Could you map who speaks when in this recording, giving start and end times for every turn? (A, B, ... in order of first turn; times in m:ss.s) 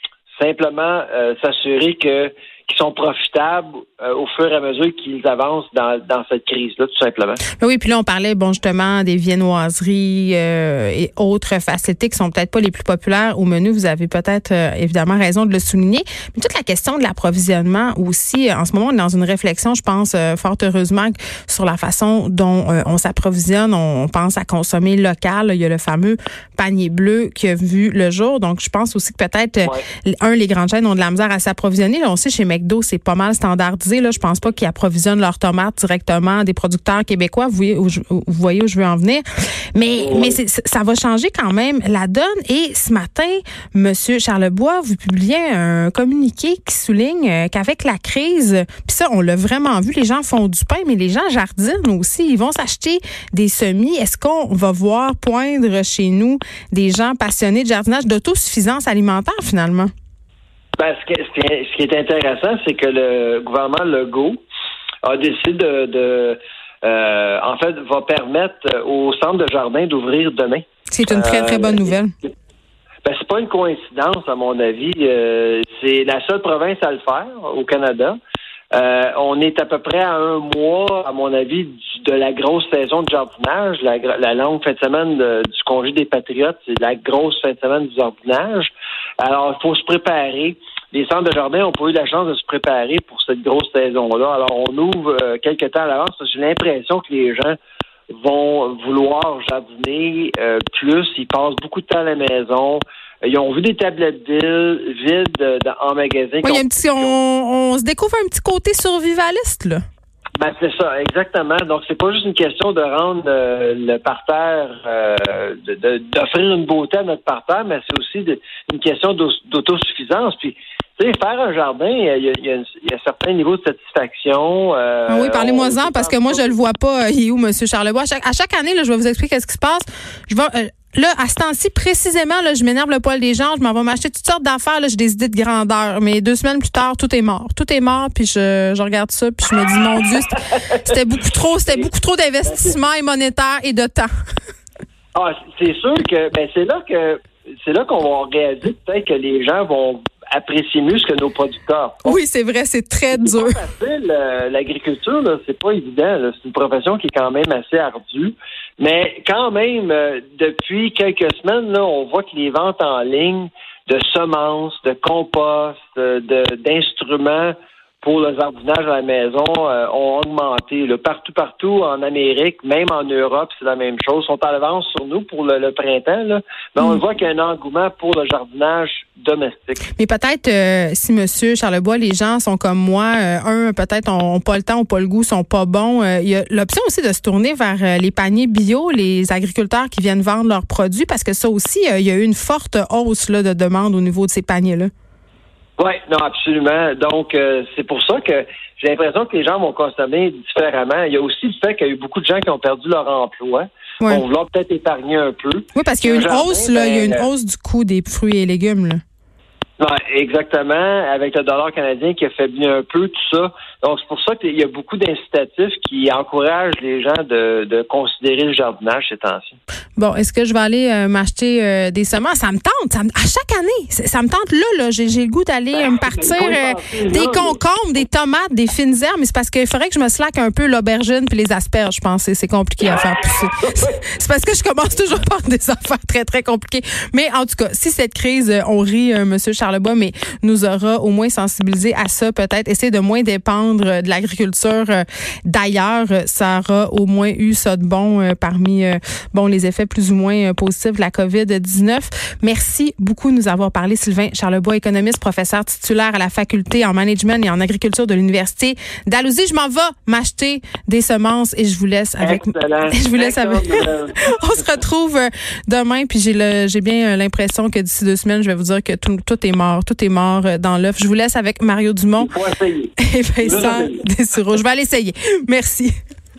0:00.3-0:07.4 A
0:07.6-0:39.2 B
0:39.7-0:59.9 B
0:40.0-0:40.4 A
1:00.8-1:04.4 A
1:05.0-1:12.0 A
1:10.9-1:12.1 B
1:13.0-1:18.2 A
1:18.7-1:37.6 A
1:38.1-1:47.2 A
1:46.4-1:49.8 B
1:50.4-2:06.5 A
2:05.1-2:24.1 B
2:22.4-2:22.8 A
2:25.1-2:32.2 A
2:32.0-2:33.6 B
2:33.1-2:59.8 A
3:00.0-3:14.9 B
3:15.8-3:27.3 A
3:25.7-3:29.0 B
3:29.8-3:39.6 A
3:40.0-4:32.3 B
3:45.7-3:47.6 A
3:53.6-3:53.9 A
4:22.2-4:24.6 A
4:32.2-4:32.9 A
4:33.0-4:35.9 B
4:33.4-4:34.0 A